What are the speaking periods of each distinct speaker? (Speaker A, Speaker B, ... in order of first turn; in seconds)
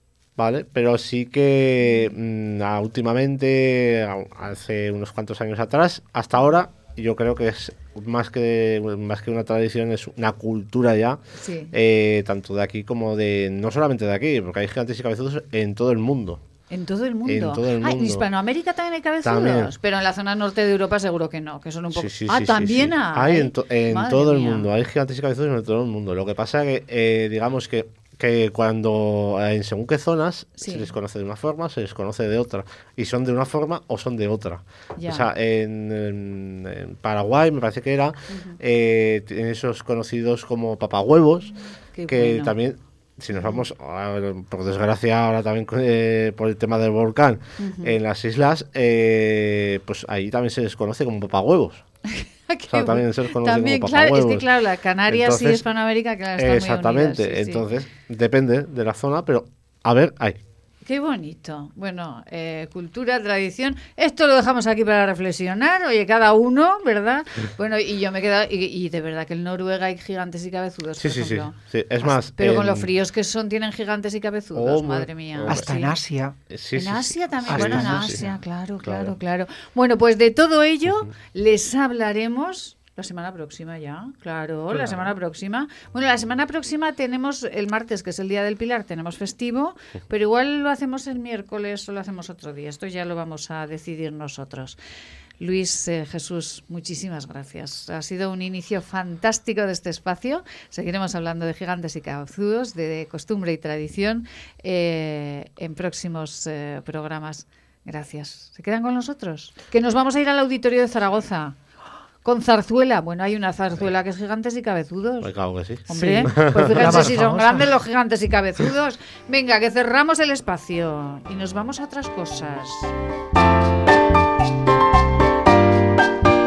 Speaker A: 0.4-11.2, 11.7-16.4, 17.2-18.3, 19.2-19.7, 21.9-41.6, 42.1-51.9, 52.7-54.5, 55.1-55.6, 56.4-60.4, 71.0-72.9, 74.5-75.7, 76.5-78.3, 78.8-79.2, 84.7-85.1, 115.2-117.1
Speaker B: 11.4-11.7, 16.7-24.6, 30.6-30.9, 35.0-35.2, 42.0-42.5, 47.6-47.9, 52.5-57.6, 60.9-76.0, 76.8-94.8, 95.4-111.5, 112.2-115.3, 115.9-122.9
Speaker C: 75.5-76.4, 77.5-78.2, 116.0-117.7